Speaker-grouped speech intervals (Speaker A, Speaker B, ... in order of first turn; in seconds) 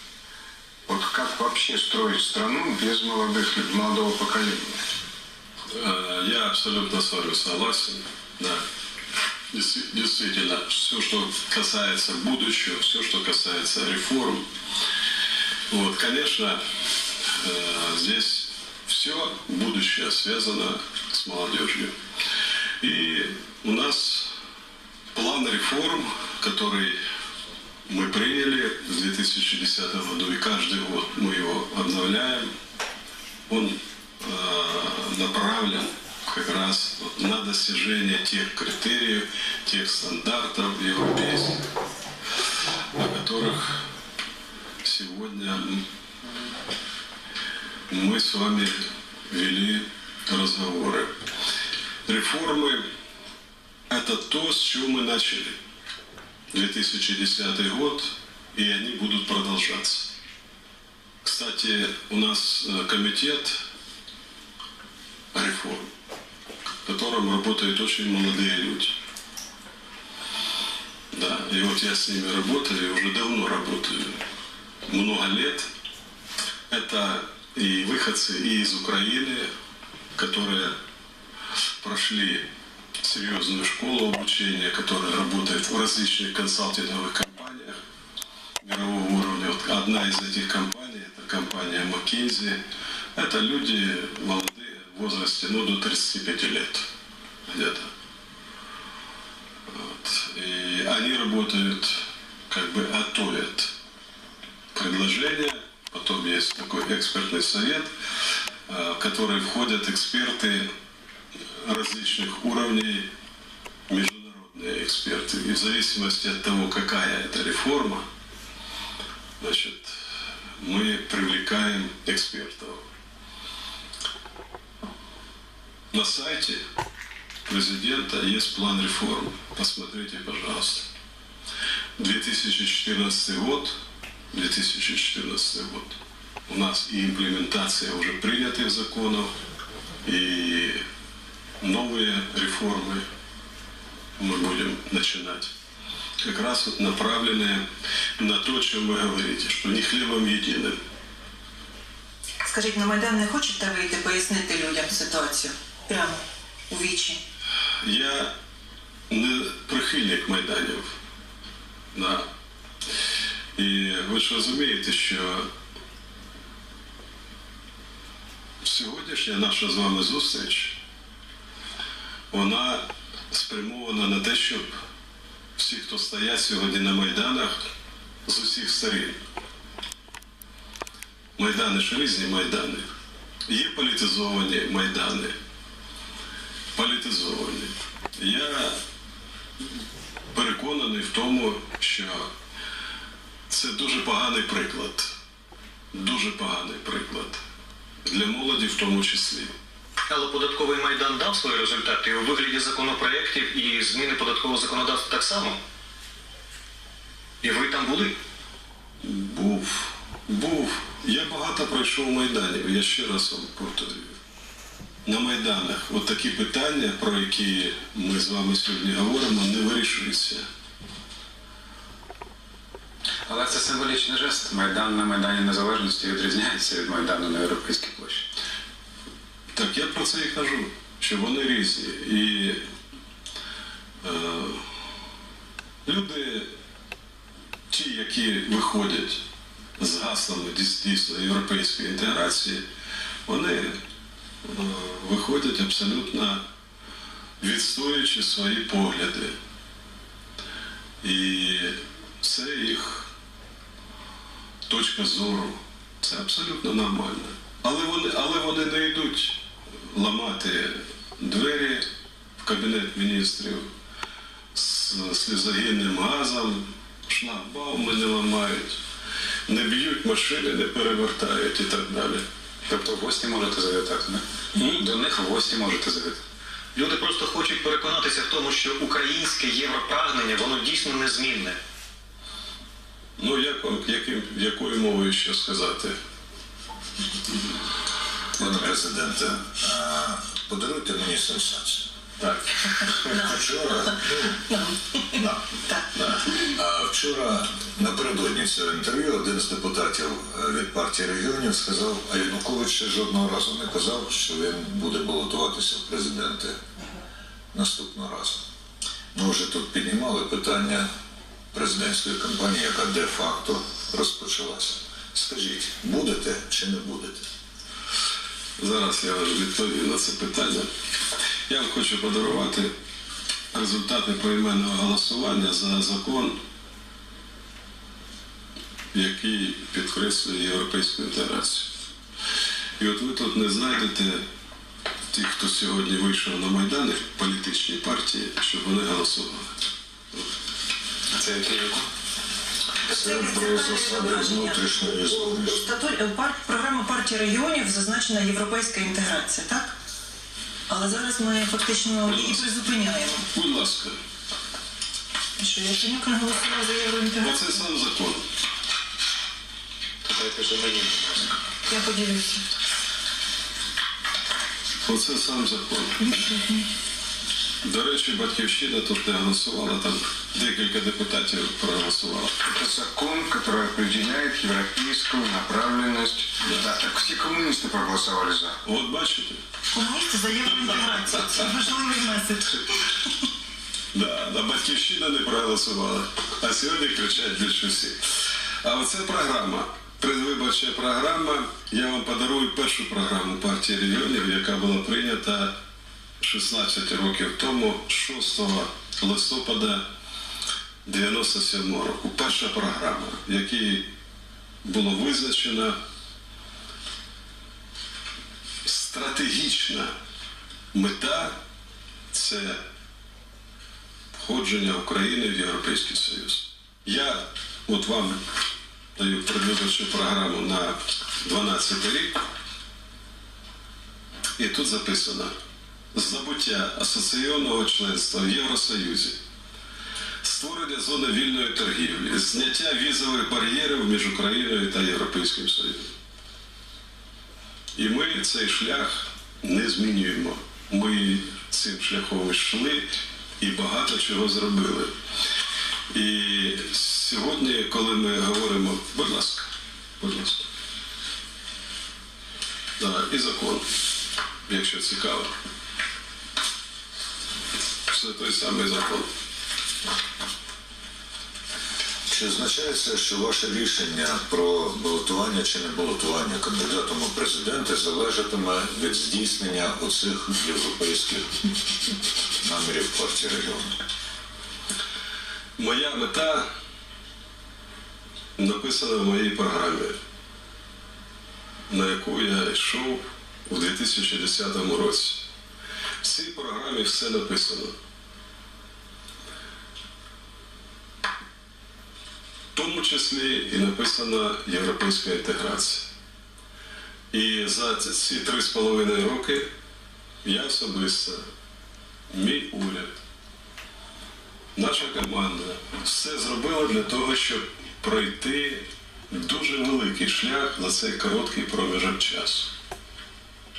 Speaker A: 0.9-4.8, 372.4-378.6
Speaker B: 5.7-8.6, 9.5-14.5, 15.7-16.6, 17.2-21.9, 22.8-24.3, 25.1-27.0, 27.9-32.5, 33.5-41.6, 43.0-43.8, 44.8-45.8, 47.9-48.8, 49.3-51.1, 52.1-52.9, 53.9-55.6, 56.5-60.1, 61.2-63.6, 65.3-65.9, 66.9-69.0, 71.1-74.2, 74.9-75.7, 76.7-79.5, 80.2-80.8, 81.8-82.5, 83.0-87.8, 88.6-92.6, 93.2-96.9, 97.5-97.9, 99.7-103.7, 104.7-107.9, 108.7-110.7, 111.5-113.1, 113.9-118.1, 119.4-120.0, 120.6-122.8, 125.9-126.6, 127.5-130.9, 132.0-133.8, 134.3-139.3, 140.0-140.8, 141.6-143.1, 144.2-145.5, 146.2-147.6, 148.2-150.8, 157.8-158.3, 159.1-161.0, 161.9-162.3, 163.6-165.5, 168.6-170.8, 172.3-174.7, 175.6-177.7, 178.3-179.2, 181.4-182.9, 183.5-185.3, 186.8-188.8, 190.3-192.3, 193.5-195.1, 195.9-197.4, 198.1-199.5, 209.0-214.2, 215.1-220.4, 229.5-232.6, 234.0-234.6, 235.8-236.5, 237.7-239.2, 239.8-242.7, 243.3-243.8, 244.4-246.4, 247.4-249.3, 251.0-253.1, 254.7-261.9, 262.4-263.7, 264.5-268.8, 269.5-272.2, 274.6-274.9, 283.2-286.0, 292.2-292.7, 295.9-296.3, 318.6-320.7, 321.5-322.7, 323.5-326.4, 328.9-331.7, 332.8-334.2, 335.1-339.5, 352.1-352.5, 353.3-354.0, 357.2-358.2, 364.8-366.2, 367.6-372.4, 378.6-379.4, 383.9-388.0, 388.6-395.6, 396.2-399.9, 400.9-403.9, 404.6-405.8, 408.6-409.9, 410.7-411.4, 412.1-412.6, 414.1-418.2, 419.0-422.2, 424.4-425.3, 425.9-429.2, 430.2-435.9, 437.8-442.9, 443.4-444.9, 445.9-449.5, 450.0-450.5, 452.8-453.6, 454.5-455.3, 457.9-459.1, 475.6-476.5, 478.4-480.0, 481.7-485.2, 486.0-487.8, 492.6-495.9, 497.1-499.5, 500.2-501.2, 502.1-503.0, 504.6-512.5
Speaker C: 152.4-157.2, 294.5-295.9, 342.8-349.7, 350.7-353.3, 355.4-357.6, 361.6-362.4, 366.1-366.7, 379.7-383.1
Speaker D: 200.1-205.6, 207.4-208.2, 276.8-281.6
Speaker E: 223.3-228.3, 272.7-276.2, 341.1-341.9, 360.0-361.4
Speaker F: 288.4-291.8, 292.9-294.4, 295.1-295.4, 296.4-306.6, 307.5-308.4, 309.1-310.9, 311.5-317.2, 342.9-345.7, 462.1-471.4, 472.4-473.8